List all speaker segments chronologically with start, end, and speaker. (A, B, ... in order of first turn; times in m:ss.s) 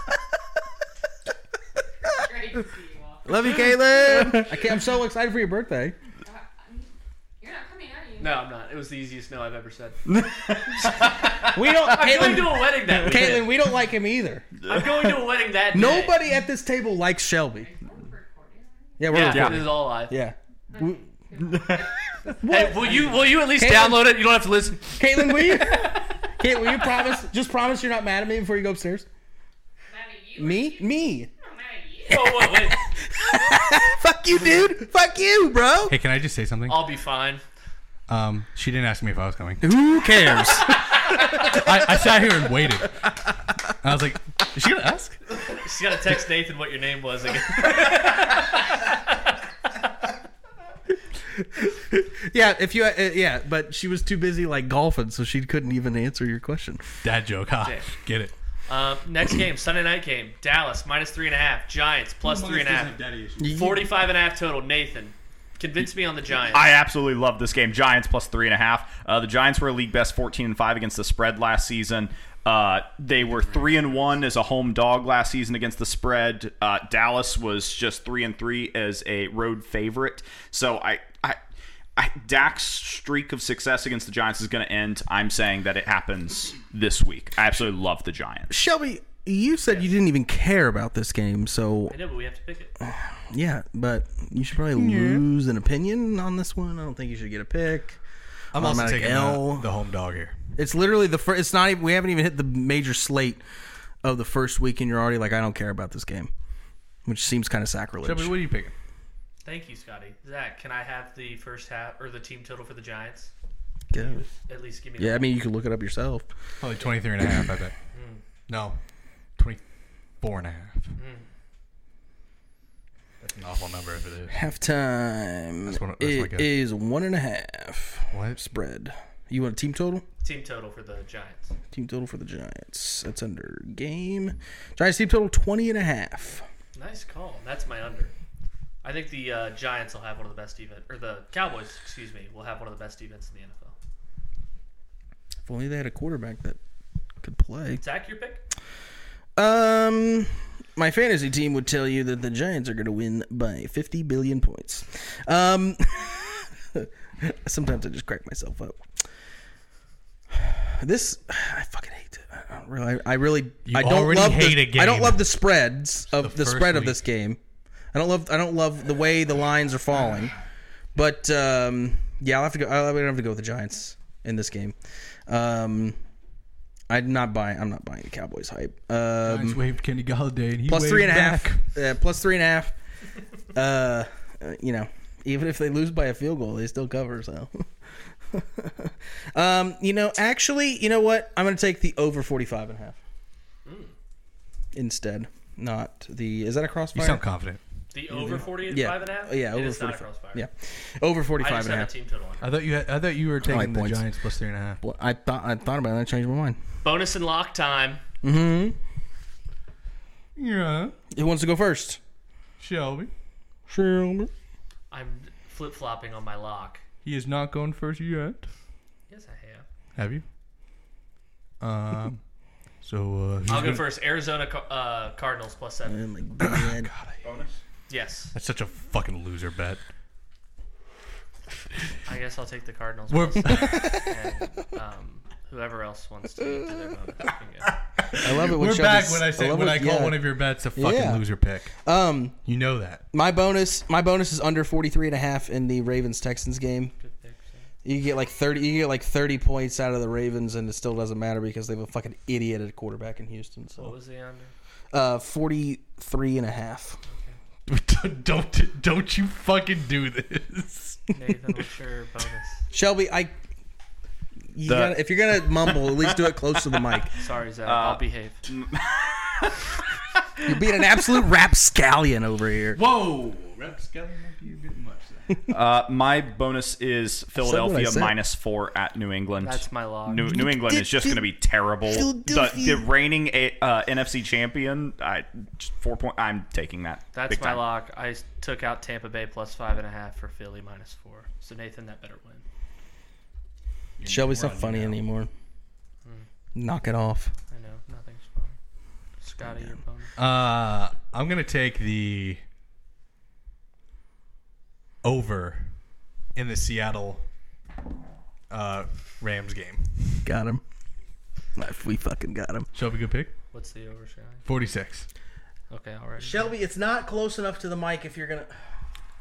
0:02.0-0:04.5 A
0:03.3-0:06.0 B
0:06.2-0:08.5 A
0:08.2-0:10.0 C
0:10.1-0:11.5 D
0:10.8-0:13.6 C
0:11.4-0:14.5 B
0:14.6-0:16.2 C
0:15.7-0:17.7 B
0:17.6-0:19.1 A
0:19.0-0:21.0 B
0:19.1-0:20.2 C
0:19.2-0:19.7 D
0:20.7-0:22.4 A
0:21.4-0:21.9 D
0:22.3-0:24.3 B
0:22.5-0:26.1 C
0:25.0-0:29.1 B
0:29.9-0:32.3 A
0:30.4-0:31.3 B
0:32.1-0:32.8 C
0:32.1-0:36.0 B
0:35.9-0:36.9 E
0:36.7-0:37.4 C
0:38.1-0:39.7 E
0:39.6-0:42.0 B
0:41.1-0:43.1 E
0:43.8-0:45.2 E
0:45.5-0:49.4 C
0:51.2-0:57.0 B
0:57.0-0:58.3 E
0:57.6-0:58.0 C
0:58.7-1:06.7 C
1:02.2-1:03.5 E
1:03.4-1:03.9 B
1:06.5-1:21.4 D
1:22.0-1:28.5 D
1:28.5-1:32.0 B
1:31.9-1:32.8 C
1:32.8-1:38.0 B
1:34.8-1:35.2 E
1:38.5-1:39.7 B
1:38.5-1:40.4 E
1:40.6-1:43.4 B
1:44.0-1:46.3 B
1:47.0-1:48.4 B
1:48.0-1:48.7 E
1:49.4-1:53.3 C
1:53.9-1:54.3 B
1:54.0-1:55.3 C
1:55.0-1:56.3 B
1:56.6-1:57.8 E
1:57.9-1:58.2 C
1:58.5-1:58.8 E
1:59.4-1:59.6 E
2:00.2-2:01.0 E
2:01.0-2:01.3 C
2:03.2-2:04.4 E
2:04.3-2:10.0 B
2:05.7-2:06.5 E
2:08.1-2:08.4 E
2:10.2-2:11.5 C
2:11.7-2:16.4 B
2:16.8-2:18.1 C
2:18.8-2:23.7 C
2:25.4-2:26.6 B
2:27.2-2:27.8 B
2:27.8-2:28.4 C
2:29.4-2:38.9 B
2:40.3-2:47.4 B
2:43.7-2:45.3 E
2:46.1-2:47.0 E
2:47.9-2:50.4 B
2:51.0-2:54.8 B
2:55.3-2:56.0 B
2:56.9-2:59.6 B
2:59.3-3:01.6 E
3:00.7-3:02.8 B
3:03.5-3:07.7 B
3:08.3-3:13.0 B
3:13.6-3:13.9 C
3:14.7-3:17.2 B
3:17.0-3:17.6 E
3:17.9-3:20.4 C
3:18.1-3:21.9 B
3:21.4-3:22.5 C
3:22.4-3:24.8 E
3:23.4-3:24.1 B
3:24.8-3:26.6 B
3:26.8-3:28.0 C
3:28.2-3:28.8 B
3:30.4-3:31.0 E
3:31.1-3:32.0 B
3:32.6-3:33.1 E
3:33.7-3:34.3 B
3:34.9-3:36.8 C
3:37.0-3:38.5 E
3:39.1-3:39.7 C
3:40.0-3:40.2 E
3:41.6-3:42.2 E
3:42.8-3:43.9 E
3:43.5-3:46.0 C
3:45.9-3:46.9 B
3:46.4-3:47.6 E
3:47.9-3:48.3 C
3:48.3-3:49.8 E
3:52.0-3:57.8 C
3:53.1-3:54.1 E
3:53.6-3:54.0 B
3:58.0-4:01.7 E
3:58.1-4:01.3 B
4:01.8-4:02.4 B
4:02.5-4:03.0 E
4:03.1-4:06.9 B
4:07.0-4:07.7 C
4:07.8-4:14.0 B
4:13.8-4:14.5 C
4:14.9-4:17.0 B
4:17.1-4:17.4 C
4:17.7-4:21.0 E
4:21.1-4:22.7 C
4:22.7-4:23.3 B
4:24.5-4:27.2 B
4:24.7-4:26.2 D
4:26.8-4:27.0 D
4:27.2-4:28.5 C
4:27.6-4:29.8 D
4:30.4-4:32.8 B
4:32.7-4:35.4 E
4:35.5-4:47.6 D
4:37.4-4:38.2 B
4:39.4-4:40.2 C
4:40.1-4:41.2 B
4:41.9-4:42.9 B
4:47.1-4:52.4 C
4:54.0-4:55.0 E
4:54.0-4:55.3 B
4:56.6-4:57.3 B
4:57.5-4:58.6 C
4:59.2-5:00.1 C
5:00.2-5:02.4 E
5:05.0-5:05.8 E
5:06.4-5:07.2 E
5:08.5-5:10.2 E
5:10.2-5:10.6 B
5:11.6-5:12.7 B
5:12.7-5:13.3 E
5:13.5-5:14.4 C
5:14.5-5:15.1 E
5:15.7-5:16.5 C
5:16.2-5:18.5 B